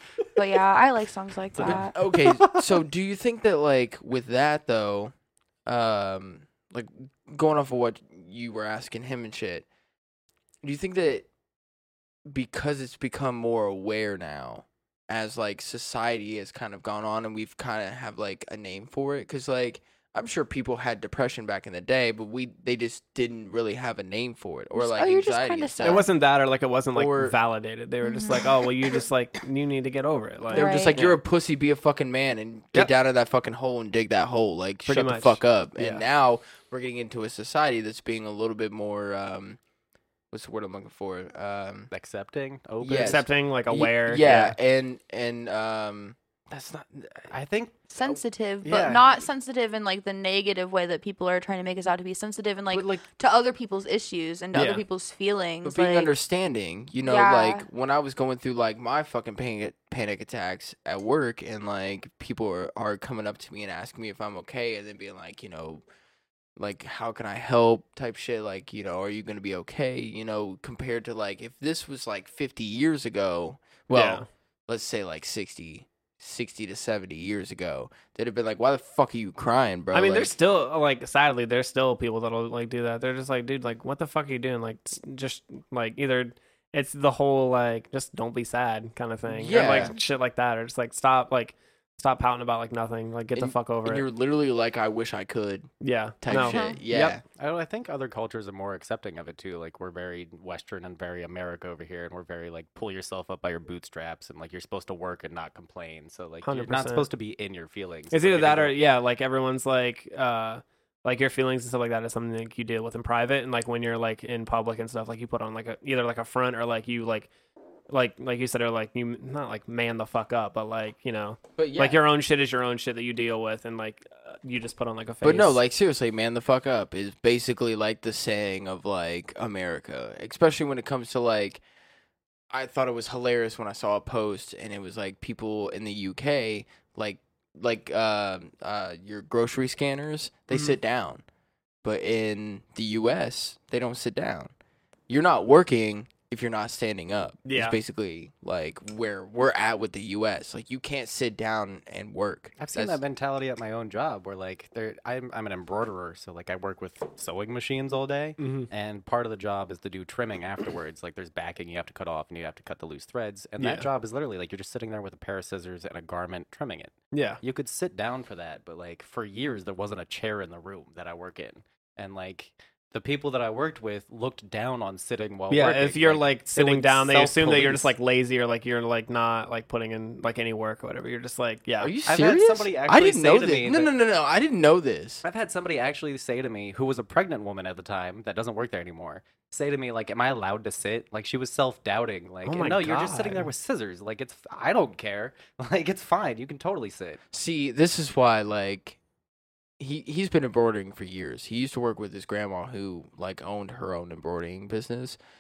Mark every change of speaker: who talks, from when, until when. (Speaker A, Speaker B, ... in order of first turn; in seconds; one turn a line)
Speaker A: 0.4-1.9
Speaker B: 1.6-2.5
Speaker C: 1.6-5.1
Speaker C: 5.7-9.7
Speaker C: 10.6-11.3
Speaker C: 12.3-26.1
Speaker A: 24.7-26.1
Speaker D: 25.8-31.2
Speaker C: 26.9-27.4
Speaker A: 28.0-28.5
Speaker C: 30.5-39.6
Speaker A: 30.5-31.0
Speaker D: 34.9-36.0
Speaker C: 40.3-41.9
Speaker B: 41.9-43.2
Speaker C: 42.8-47.3
Speaker D: 43.0-44.5
Speaker B: 47.3-47.8
Speaker A: 47.9-56.1
Speaker B: 48.6-49.0
Speaker B: 52.7-53.0
Speaker D: 54.5-54.8
Speaker C: 55.6-65.8
Speaker A: 57.0-57.6
Speaker C: 66.6-80.3
Speaker D: 73.9-74.2
Speaker D: 79.9-94.0
Speaker C: 89.4-89.9
Speaker C: 93.3-95.7
Speaker D: 95.8-97.2
Speaker C: 96.2-97.2
Speaker A: 96.3-96.8
Speaker B: 97.3-108.8
Speaker D: 106.4-107.1
Speaker D: 108.1-117.3
Speaker D: 117.9-125.6
Speaker C: 121.6-122.0
Speaker C: 125.2-131.6
Speaker C: 132.5-141.2
Speaker D: 140.5-140.8
Speaker C: 141.8-144.5
Speaker C: 145.1-153.0
Speaker D: 147.4-147.8
Speaker B: 152.6-177.9
Speaker D: 158.4-158.7
Speaker D: 163.6-163.9
Speaker D: 167.1-167.4
Speaker D: 175.5-181.9
Speaker C: 181.8-185.2
Speaker B: 182.1-183.9
Speaker B: 185.2-197.2
Speaker D: 192.4-193.5
Speaker C: 197.3-199.0
Speaker C: 199.8-205.2